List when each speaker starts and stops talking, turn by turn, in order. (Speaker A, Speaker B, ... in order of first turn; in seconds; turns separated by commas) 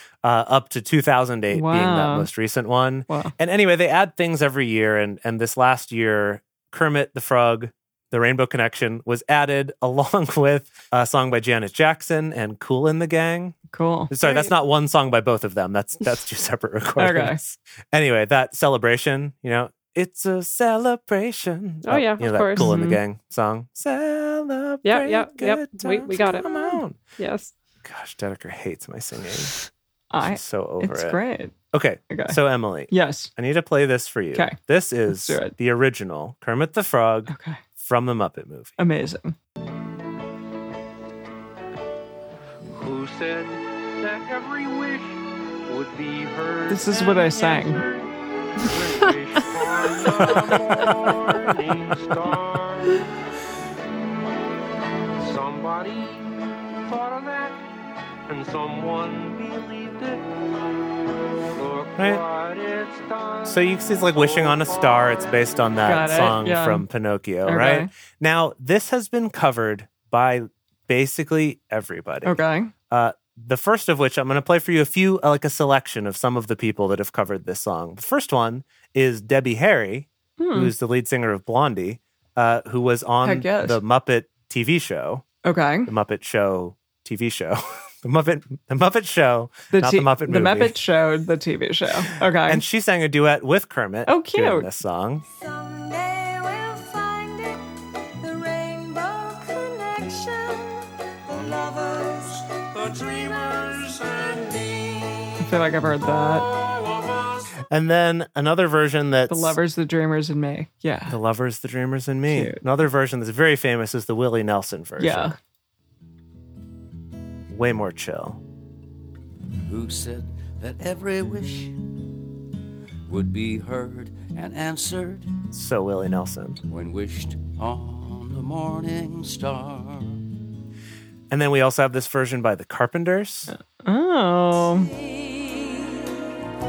Speaker A: 0.2-13.6, Speaker B: 1.5-2.3, Speaker B: 3.1-3.3, Speaker B: 13.7-14.1, Speaker A: 14.1-27.0, Speaker C: 14.2-14.5, Speaker B: 17.0-17.4, Speaker C: 21.9-22.7, Speaker B: 22.6-23.0, Speaker C: 24.8-26.5, Speaker C: 27.2-27.5, Speaker A: 27.8-29.5, Speaker B: 30.1-31.5, Speaker A: 30.2-31.2, Speaker A: 31.7-38.8, Speaker B: 32.1-32.4, Speaker B: 32.9-33.3, Speaker B: 34.3-35.5, Speaker B: 37.3-37.6, Speaker B: 38.8-39.4, Speaker D: 42.7-53.0, Speaker B: 46.7-47.8, Speaker D: 55.2-57.6, Speaker D: 58.3-60.7, Speaker D: 61.5-66.3, Speaker A: 62.0-62.2, Speaker A: 63.5-85.2, Speaker B: 65.8-66.8, Speaker B: 67.4-67.9, Speaker B: 72.2-72.7, Speaker B: 80.4-80.7, Speaker B: 83.2-83.8, Speaker B: 85.4-85.9, Speaker A: 85.9-90.8, Speaker B: 89.7-92.6, Speaker A: 92.3-95.2, Speaker B: 94.1-94.7, Speaker E: 95.3-97.7, Speaker E: 98.2-105.4, Speaker D: 102.5-105.4, Speaker B: 105.4-106.5, Speaker D: 106.1-107.5, Speaker A: 107.7-109.6, Speaker B: 109.3-111.2, Speaker A: 111.1-115.4, Speaker B: 112.3-112.6, Speaker B: 115.0-115.4, Speaker A: 117.5-118.4, Speaker F: 119.6-121.9, Speaker F: 123.1-125.3, Speaker A: 125.5-126.6, Speaker F: 126.7-130.2, Speaker A: 131.3-133.5, Speaker B: 133.5-134.9, Speaker E: 134.5-136.4